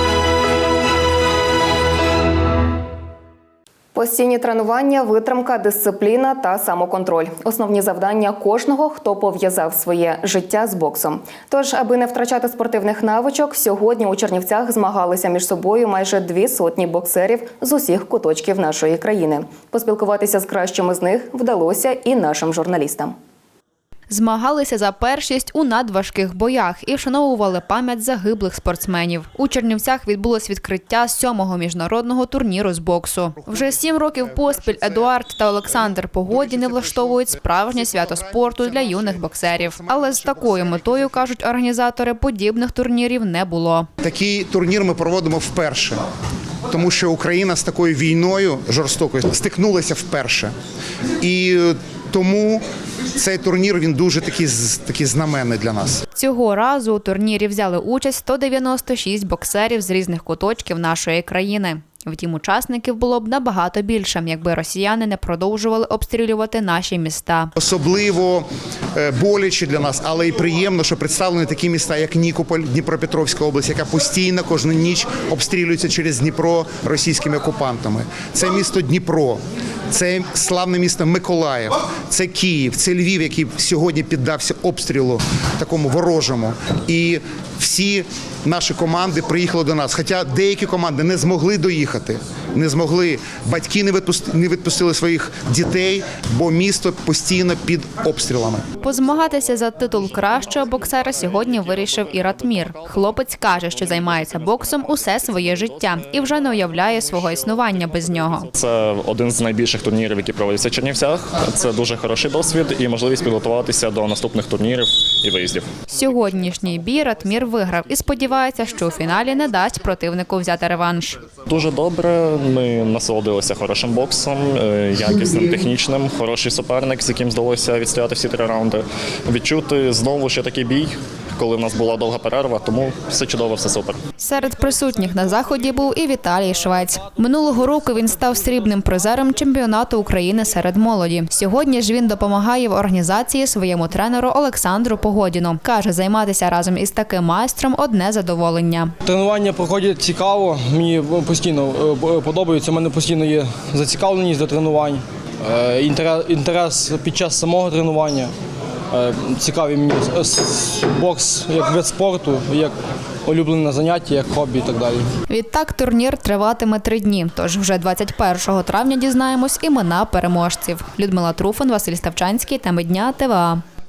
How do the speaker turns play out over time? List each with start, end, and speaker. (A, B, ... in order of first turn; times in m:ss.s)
0:03.9-0:23.1 A
0:24.1-0:43.9 B
0:33.5-0:35.1 C
0:35.6-0:41.2 C
0:44.0-0:46.0 C
0:46.7-0:50.5 C
0:51.2-0:52.6 C
0:53.2-0:56.0 C
0:56.1-1:07.5 B
1:07.6-1:38.6 C
1:38.8-1:48.5 B
1:40.6-1:42.8 D
1:43.4-1:55.8 D
1:55.9-2:01.2 B
2:01.4-2:14.0 D
2:14.2-2:28.9 B
2:29.0-2:38.3 E
2:38.9-2:42.7 E
2:43.2-2:45.1 E
2:45.3-2:53.6 B